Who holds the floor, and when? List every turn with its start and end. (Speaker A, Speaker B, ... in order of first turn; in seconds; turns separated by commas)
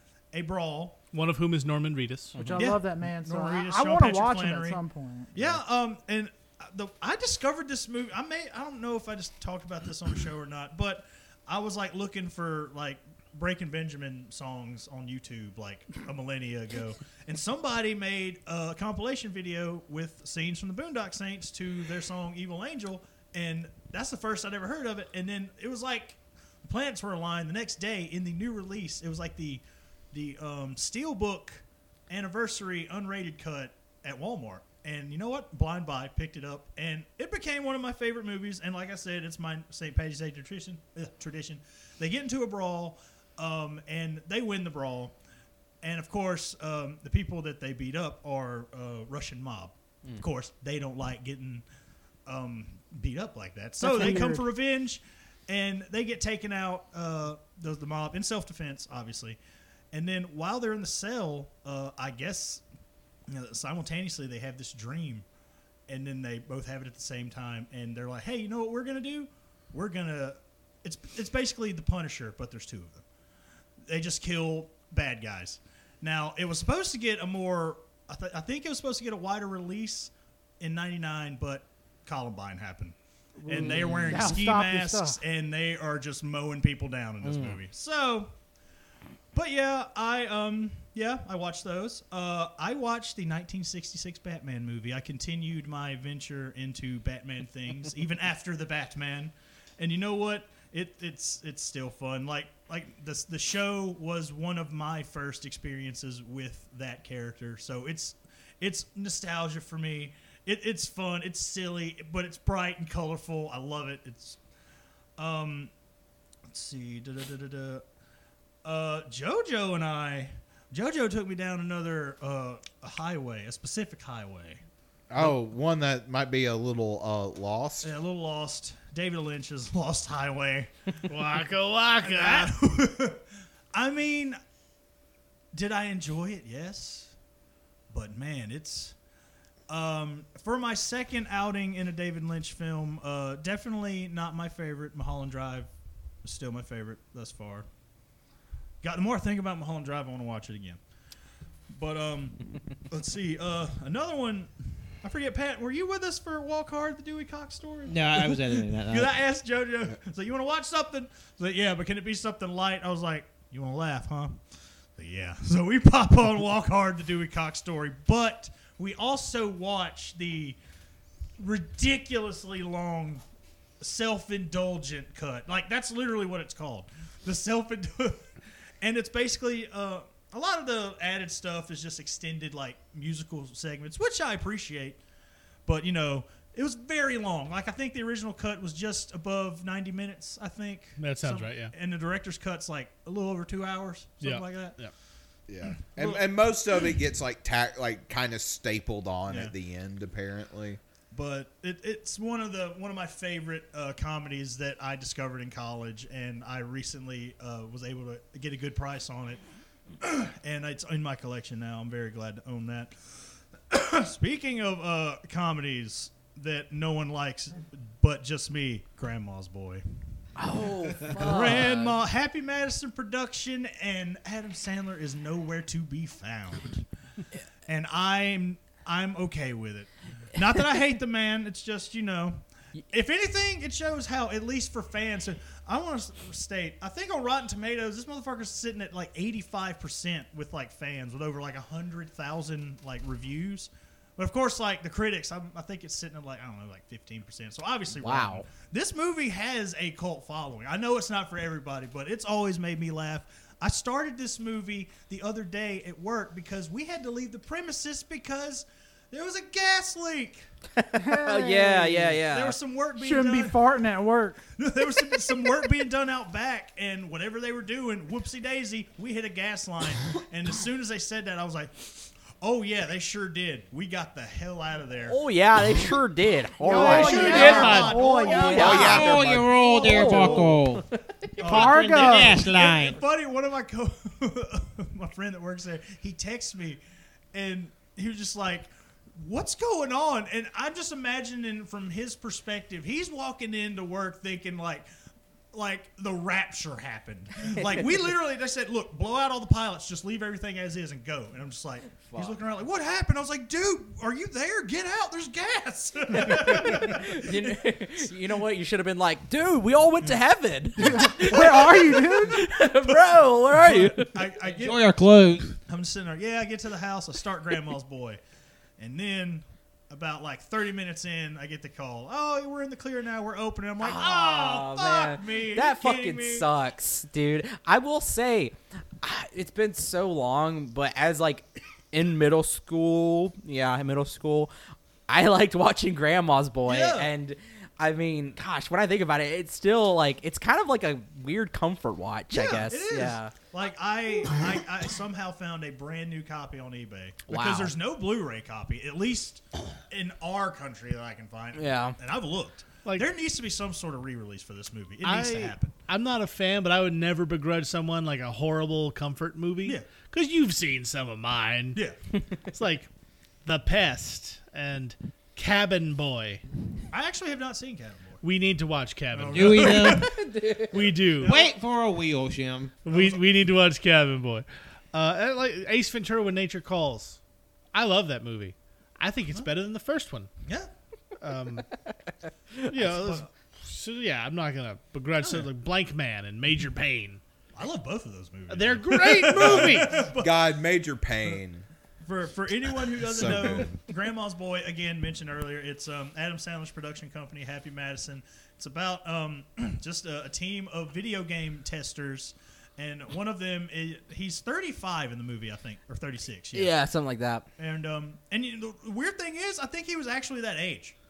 Speaker A: 0.3-1.0, Speaker B: 1.1-2.5, Speaker C: 2.3-2.7, Speaker D: 2.4-5.5, Speaker A: 2.6-4.8, Speaker A: 5.3-45.2, Speaker A: 45.8-51.6, Speaker A: 52.3-59.4, Speaker D: 53.8-54.4, Speaker A: 59.9-62.6, Speaker A: 63.3-65.2, Speaker A: 65.9-73.0, Speaker A: 73.9-88.3, Speaker C: 83.5-84.3, Speaker D: 83.5-85.2, Speaker C: 87.2-87.6, Speaker A: 89.3-114.4, Speaker A: 115.2-115.7, Speaker A: 116.5-117.8, Speaker A: 118.6-124.6, Speaker E: 125.1-127.9, Speaker A: 127.8-130.7, Speaker B: 131.1-132.5, Speaker A: 132.0-133.2, Speaker A: 133.7-134.4, Speaker A: 135.5-137.1, Speaker A: 137.9-138.9, Speaker A: 139.7-145.7, Speaker A: 146.2-147.7, Speaker A: 148.8-150.8, Speaker A: 151.7-164.4, Speaker F: 157.9-159.2, Speaker A: 165.0-170.6, Speaker A: 171.4-173.2, Speaker A: 173.8-178.3, Speaker A: 178.8-185.0, Speaker A: 185.7-194.8, Speaker B: 191.0-191.7, Speaker B: 194.2-194.9, Speaker E: 195.5-200.8, Speaker A: 195.7-196.3, Speaker A: 199.3-199.5, Speaker A: 201.1-209.4, Speaker A: 210.0-212.9, Speaker A: 213.7-219.8, Speaker C: 220.4-222.0, Speaker A: 220.9-226.8, Speaker A: 227.7-260.5, Speaker C: 248.0-248.4, Speaker C: 260.8-262.6, Speaker D: 261.0-262.1, Speaker A: 262.1-263.6, Speaker D: 263.0-264.4, Speaker A: 264.6-275.2, Speaker C: 275.1-281.4, Speaker A: 276.6-279.0, Speaker D: 276.6-278.9, Speaker B: 276.9-278.0, Speaker E: 278.5-279.5, Speaker F: 278.6-280.8, Speaker A: 279.7-280.6, Speaker A: 281.4-286.8, Speaker F: 281.4-283.0, Speaker D: 281.4-282.5, Speaker A: 287.3-294.9, Speaker A: 295.5-307.6, Speaker C: 302.1-302.4, Speaker C: 306.1-314.2, Speaker D: 310.8-312.4, Speaker A: 310.9-312.1, Speaker A: 312.8-314.9, Speaker F: 314.5-315.6, Speaker A: 315.6-318.2, Speaker A: 318.8-326.5, Speaker C: 323.8-334.5, Speaker C: 335.1-343.3, Speaker A: 336.7-337.1, Speaker A: 342.3-355.9, Speaker C: 347.3-347.7, Speaker C: 351.5-352.0, Speaker B: 355.0-361.8, Speaker A: 359.6-360.0, Speaker B: 362.5-362.9, Speaker B: 363.4-366.4, Speaker A: 366.9-368.2, Speaker B: 368.2-371.3, Speaker A: 369.1-370.2, Speaker F: 369.3-370.1, Speaker C: 370.2-370.7, Speaker A: 371.1-371.6, Speaker F: 371.2-372.8, Speaker B: 372.9-377.2, Speaker A: 372.9-373.2, Speaker B: 377.7-380.3, Speaker A: 380.4-380.7, Speaker B: 381.2-381.7, Speaker B: 382.7-387.2, Speaker A: 382.9-383.3, Speaker A: 385.2-385.5, Speaker A: 387.6-390.5, Speaker B: 388.5-390.1, Speaker E: 389.4-391.7, Speaker A: 392.0-406.8, Speaker E: 392.8-393.8, Speaker C: 406.5-407.5, Speaker A: 407.6-410.9